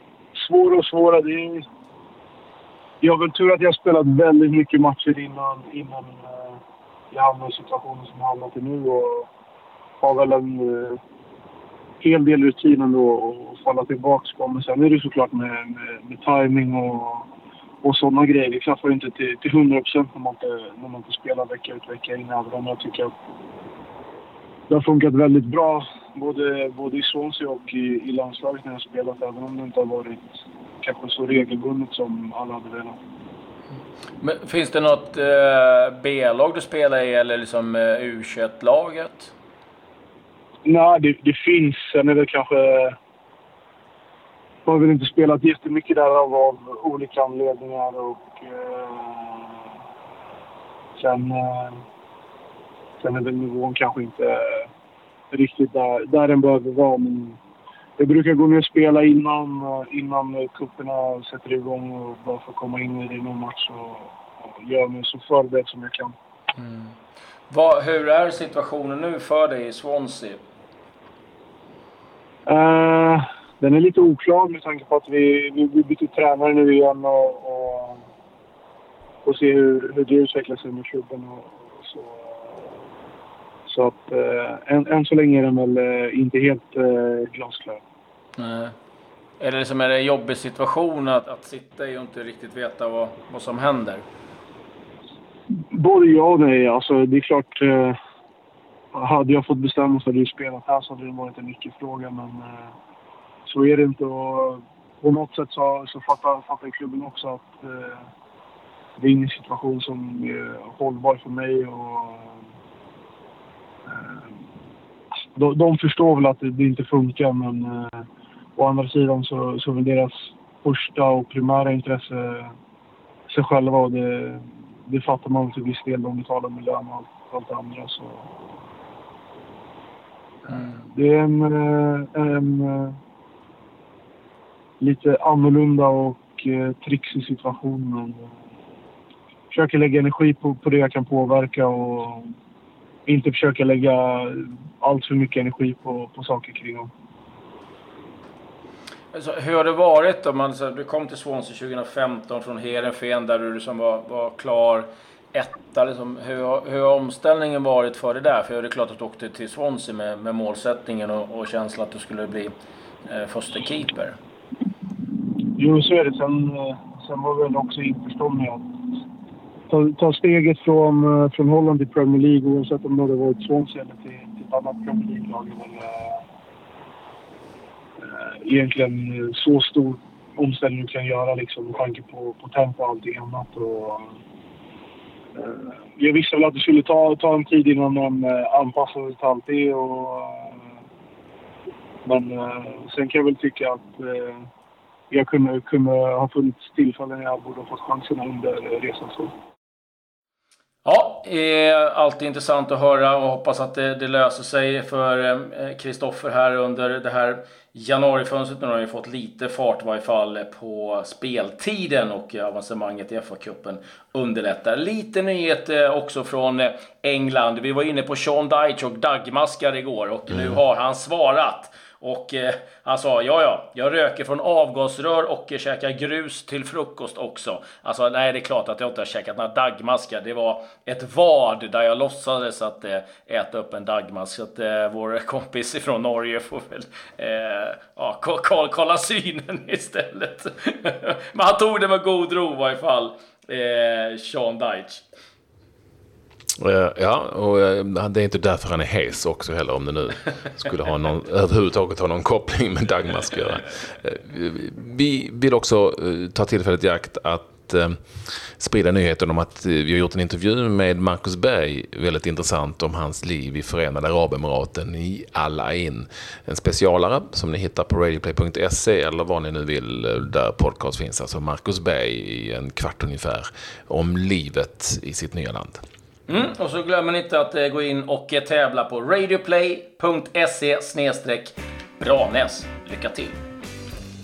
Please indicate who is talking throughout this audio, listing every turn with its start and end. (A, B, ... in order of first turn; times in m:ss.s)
0:00.4-0:01.6 A
0:03.0-0:06.6 A
0:07.1-0:09.3 A
0:10.0-0:11.0 A
0:12.0-0:17.3 A
0:17.8-0:23.1 A
0:24.7-0:33.0 A
0:34.2-0:39.3 B
0:40.6-0:42.9 A
0:44.6-0:49.6 A
0:51.0-0:51.8 A
0:53.0-0:54.7 A
0:55.3-0:57.4 A
0:58.0-1:06.1 A
1:06.6-1:06.9 B
1:07.5-1:10.4 B
1:12.5-1:18.0 A
1:19.2-1:22.7 A
1:23.7-1:27.8 A
1:28.4-1:28.7 B
1:29.4-1:34.0 B
1:35.7-1:38.0 A
1:38.9-1:42.7 A
1:43.5-1:48.0 A
1:49.0-1:52.4 A
1:53.9-1:54.3 A
1:55.4-2:02.5 A
2:03.3-2:08.3 A
2:10.4-2:13.0 A
2:14.8-2:18.3 A
2:19.5-2:22.3 A
2:23.1-2:26.9 A
2:29.1-2:42.5 B
2:43.0-2:44.2 B
2:45.5-2:48.6 A
2:49.7-2:56.2 A
2:58.0-3:04.1 A
3:05.4-3:10.7 A
3:12.0-3:14.4 A
3:15.1-3:19.3 A
3:20.8-4:05.0 B
4:06.6-4:35.8 C
4:36.3-4:43.4 B